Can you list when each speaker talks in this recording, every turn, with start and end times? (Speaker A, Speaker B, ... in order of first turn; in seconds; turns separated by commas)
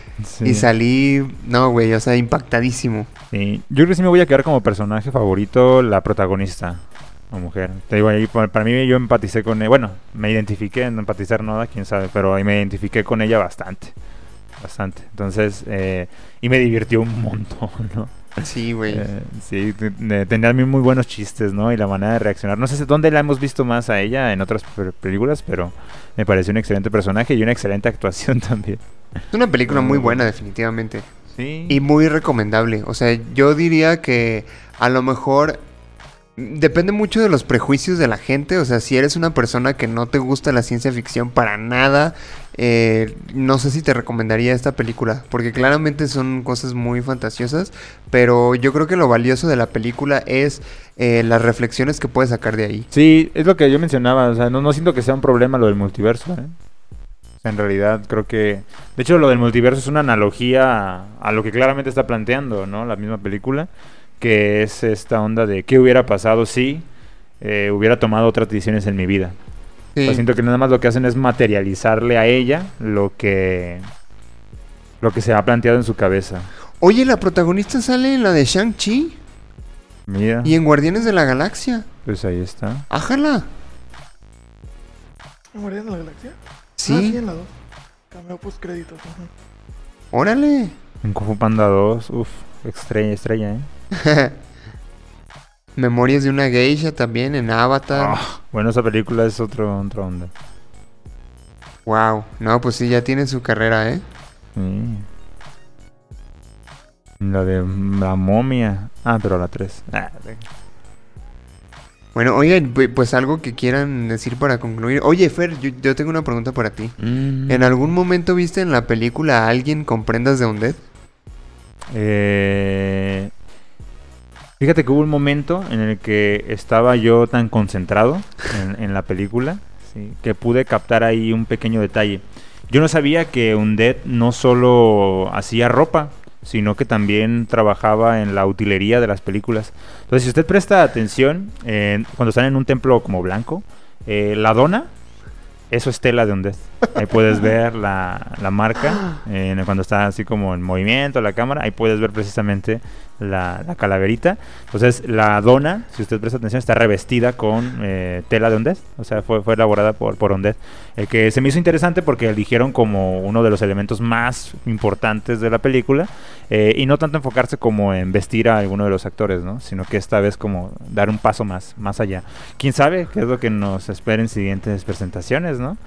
Speaker A: 0.2-0.7, Speaker B: 0.4-3.1, Speaker A: 3.3-13.9, Speaker A: 14.6-18.3, Speaker B: 18.4-19.1, Speaker A: 18.9-28.8, Speaker B: 29.3-31.1, Speaker A: 29.7-30.2, Speaker A: 31.3-31.8, Speaker B: 31.7-35.6, Speaker B: 36.4-52.9, Speaker A: 52.9-56.5, Speaker A: 57.4-63.7, Speaker A: 64.2-66.8, Speaker A: 67.4-69.3, Speaker B: 69.9-70.2, Speaker A: 70.0-73.9, Speaker A: 75.0-76.5, Speaker B: 76.8-79.2, Speaker A: 80.1-80.6, Speaker B: 80.4-81.9, Speaker A: 82.0-82.8, Speaker B: 82.9-83.5, Speaker C: 85.5-87.5, Speaker B: 86.8-87.2, Speaker C: 88.1-89.3, Speaker B: 90.1-90.8, Speaker A: 91.0-93.7, Speaker B: 93.9-94.3, Speaker B: 95.8-98.2, Speaker A: 97.9-100.3, Speaker B: 101.8-104.0, Speaker A: 104.5-105.1, Speaker A: 107.2-110.5, Speaker B: 112.1-117.0, Speaker A: 117.0-117.7, Speaker B: 117.5-120.8, Speaker A: 121.9-123.3, Speaker A: 124.6-144.9, Speaker A: 145.7-175.8